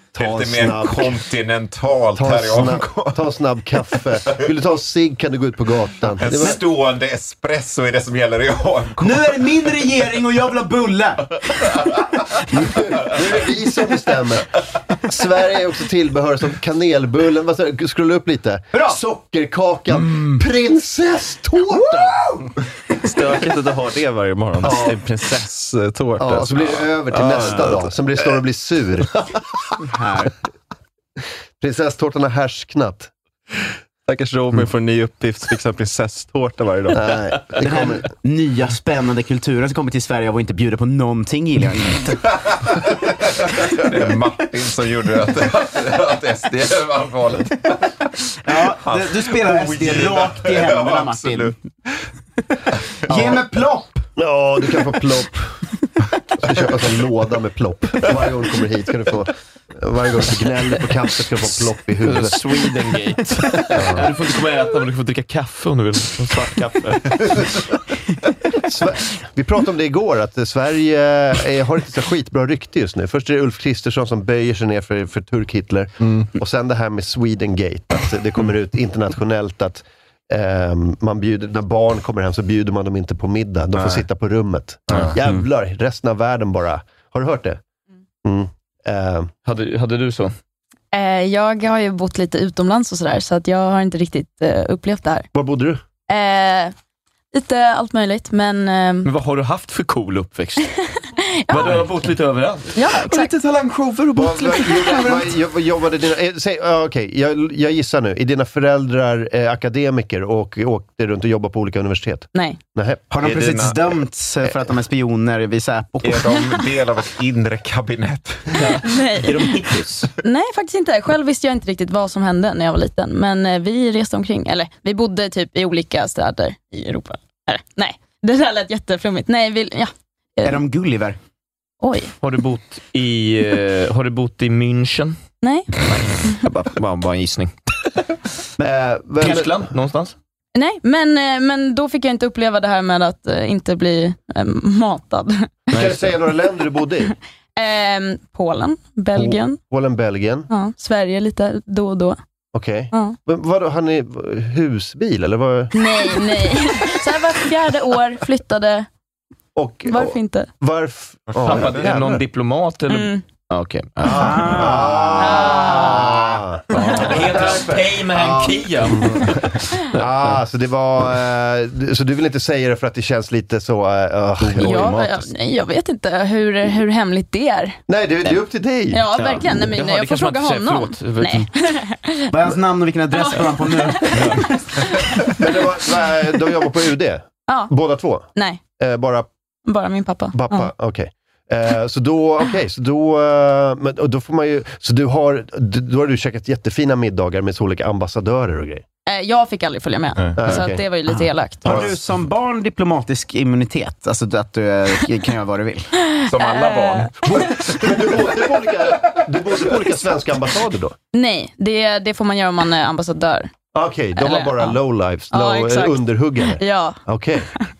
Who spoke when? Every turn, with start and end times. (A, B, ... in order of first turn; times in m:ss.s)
0:00.2-0:01.2 A
0:00.2-0:03.2 B
0:02.2-0:06.6 A
0:06.2-0:09.5 B
0:09.0-0:11.4 C
0:12.5-0:22.1 A
0:23.0-0:27.9 D
0:24.6-0:25.0 A
0:26.2-0:29.2 A
0:29.9-0:30.3 C
0:31.6-0:33.1 A
0:34.1-0:37.2 D
0:36.9-0:38.1 A
0:37.6-0:42.2 C
0:43.6-0:47.9 B
0:48.4-0:51.6 C
0:48.5-0:52.0 B
0:53.1-0:54.0 C
0:54.2-0:55.6 A
0:56.4-1:02.4 A
1:02.0-1:07.4 E
1:03.7-1:04.0 A
1:08.6-1:27.6 A
1:28.2-1:29.3 A
1:29.4-1:30.3 E
1:30.9-1:35.3 F
1:35.3-1:35.8 A
1:36.1-1:36.7 F
1:37.3-1:39.1 F
1:39.0-1:40.7 E
1:41.0-1:41.7 F
1:41.5-1:43.2 E
1:42.7-1:43.3 F
1:43.2-1:45.2 C
1:44.1-1:53.0 A
1:52.3-1:52.6 F
1:53.1-1:56.7 C
1:53.2-1:53.9 B
1:56.0-1:58.6 B
1:58.5-2:00.1 E
1:58.7-1:59.6 F
2:00.2-2:10.6 F
2:10.4-2:11.2 C
2:11.8-2:12.1 F
2:12.2-2:15.2 E
2:15.4-2:15.7 F
2:15.9-2:17.5 E
2:18.6-2:19.6 A
2:19.2-2:20.1 E
2:20.5-2:25.5 F
2:25.7-2:26.0 E
2:25.7-2:27.1 A
2:27.6-2:29.6 F
2:29.1-2:30.5 A
2:30.5-2:32.2 F
2:32.5-2:36.5 A
2:32.9-2:33.2 F
2:35.7-2:38.9 F
2:39.6-2:42.2 A
2:39.9-2:40.5 F
2:41.4-2:44.7 E
2:42.9-2:43.2 F
2:44.0-2:55.0 A
2:44.1-2:46.1 C
2:45.2-2:46.0 F
2:46.7-2:49.3 E
2:54.4-2:55.3 E
2:54.6-2:57.8 F
2:57.9-2:59.0 A
2:58.9-3:02.3 F
2:59.1-3:01.5 E
3:02.3-3:04.8 C
3:03.1-3:04.2 F
3:04.1-3:04.4 E
3:05.4-3:09.3 A
3:07.5-3:07.7 F
3:08.3-3:08.6 F
3:09.6-3:10.7 F
3:10.3-3:18.8 A
3:19.0-3:21.8 F
3:20.4-3:20.9 A
3:21.1-3:25.9 C
3:26.1-3:27.2 F
3:26.2-3:28.0 B
3:27.2-3:30.9 A
3:31.1-3:33.5 F
3:33.7-3:37.5 A
3:34.2-3:34.8 F
3:35.3-3:37.0 F